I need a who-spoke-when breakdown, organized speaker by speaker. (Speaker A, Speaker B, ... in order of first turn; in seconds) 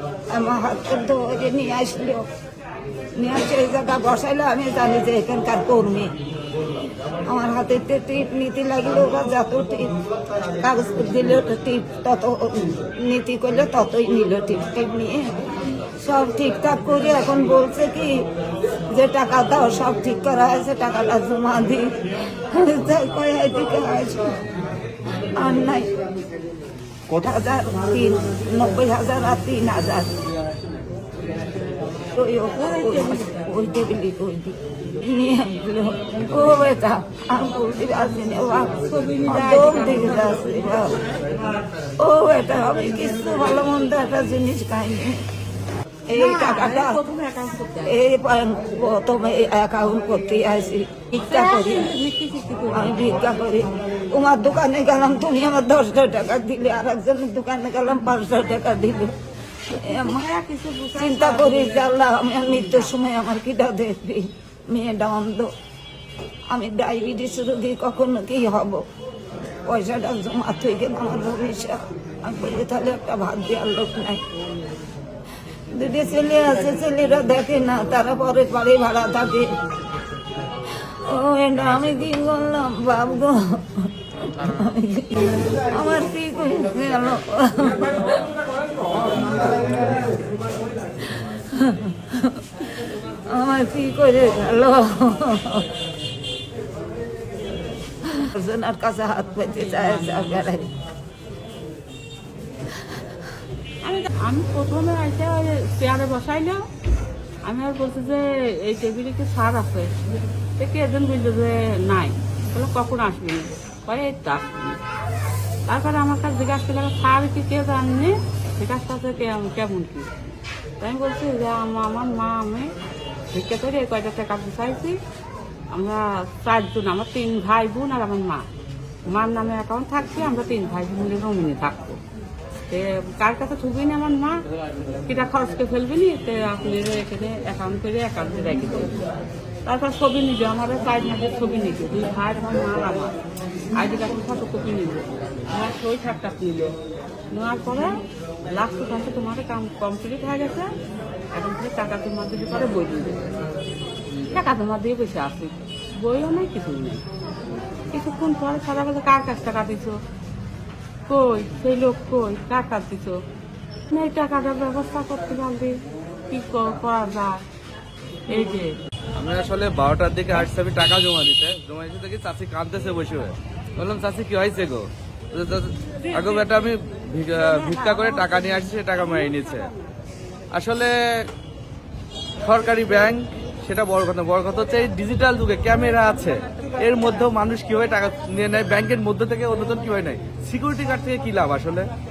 Speaker A: 0.3-2.2, 3.2-6.1, 7.3-10.0, 10.5-15.3, 16.0-18.2, 18.9-24.3, 25.3-25.9, 27.1-30.2, 32.1-38.8, 39.3-41.0, 42.0-45.2, 46.1-47.0, 47.8-52.0, 52.7-59.1, 59.7-60.2, 61.0-65.5, 66.5-68.9, 69.6-74.2, 75.7-79.5, 80.8-88.4, 89.0-90.0, 91.0-92.7, 93.3-95.7, 98.1-100.7
Speaker B: 32.7-33.3, 38.8-40.8, 46.1-47.9, 51.1-53.1, 59.8-62.9, 99.8-100.2, 103.8-106.6, 107.4-109.9, 110.6-114.8, 115.7-120.1, 120.8-122.7, 123.3-125.0, 125.7-128.5, 129.1-132.0, 132.7-134.4, 135.1-139.0, 139.7-143.2, 143.8-146.7, 147.3-148.0, 148.5-150.7, 151.3-153.2, 154.3-157.0, 157.9-160.0, 161.1-163.2, 163.9-165.7, 166.3-167.4, 168.3-168.7, 176.1-176.7, 177.4-179.8
Speaker C: 169.2-179.7, 180.5-181.3, 182.4-191.9